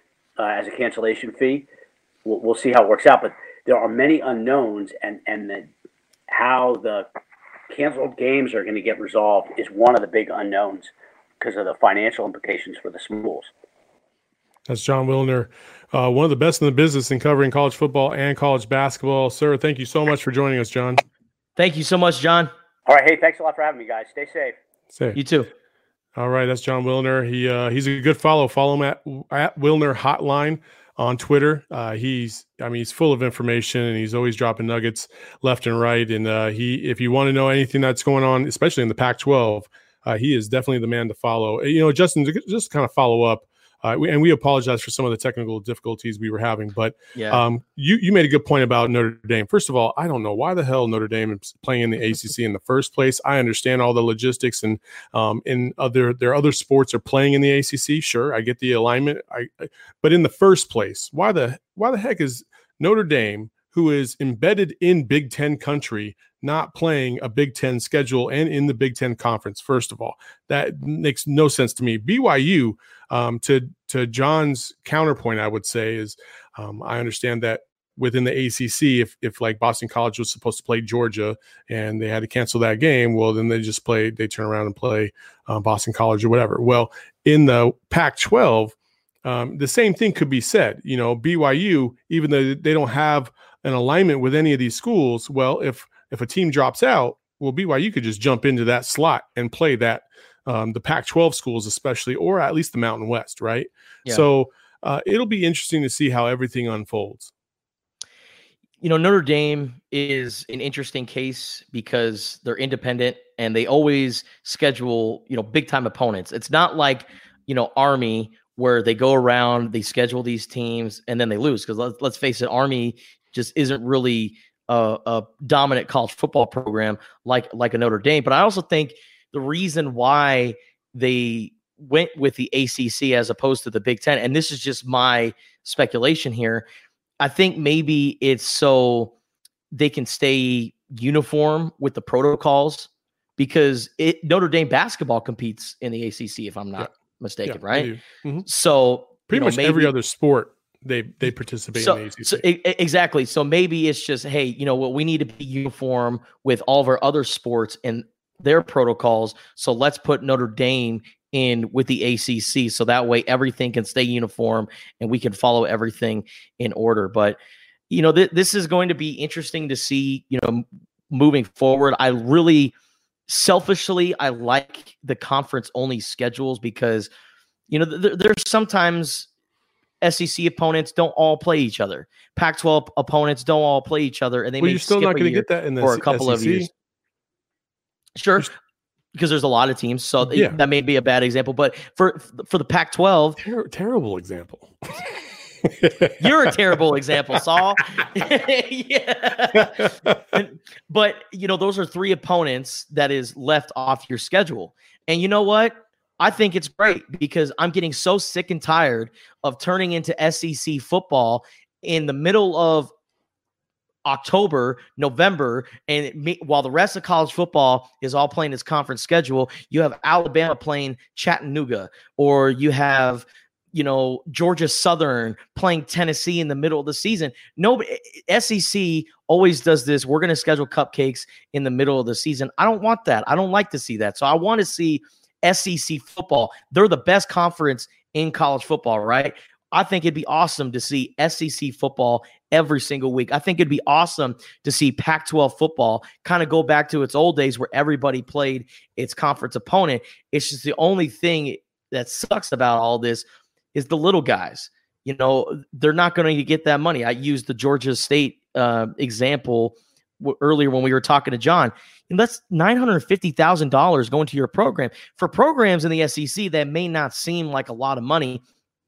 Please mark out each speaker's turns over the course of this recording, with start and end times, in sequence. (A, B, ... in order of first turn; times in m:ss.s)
0:00.4-0:01.7 A
0:02.2-0:05.7 A
0:06.3-0:07.1 A
0:07.7-0:13.5 A
0:14.7-0:21.0 B
0:21.6-0:22.5 C
0:22.9-0:24.6 A
0:24.9-0:25.2 B
0:25.2-0:25.5 C
0:26.2-1:28.7 B
0:47.2-0:47.4 C
1:29.2-1:47.3 B
1:48.8-2:16.6 C
2:17.2-2:19.1 C
2:19.7-2:27.9 C
2:27.4-2:28.5 B
2:28.5-2:29.9 C
2:29.3-2:32.4 B
2:31.8-2:47.4 C
2:47.9-2:52.7 C
2:53.3-2:57.1 C
2:57.7-2:59.3 C
3:00.0-3:06.7 C
3:04.6-3:06.7 B
3:08.2-3:08.5 C
3:09.1-3:13.4 C
3:10.2-3:10.6 B
3:13.4-3:16.5 B
3:16.2-3:32.9 C
3:19.6-3:20.2 B
3:34.0-4:28.4 C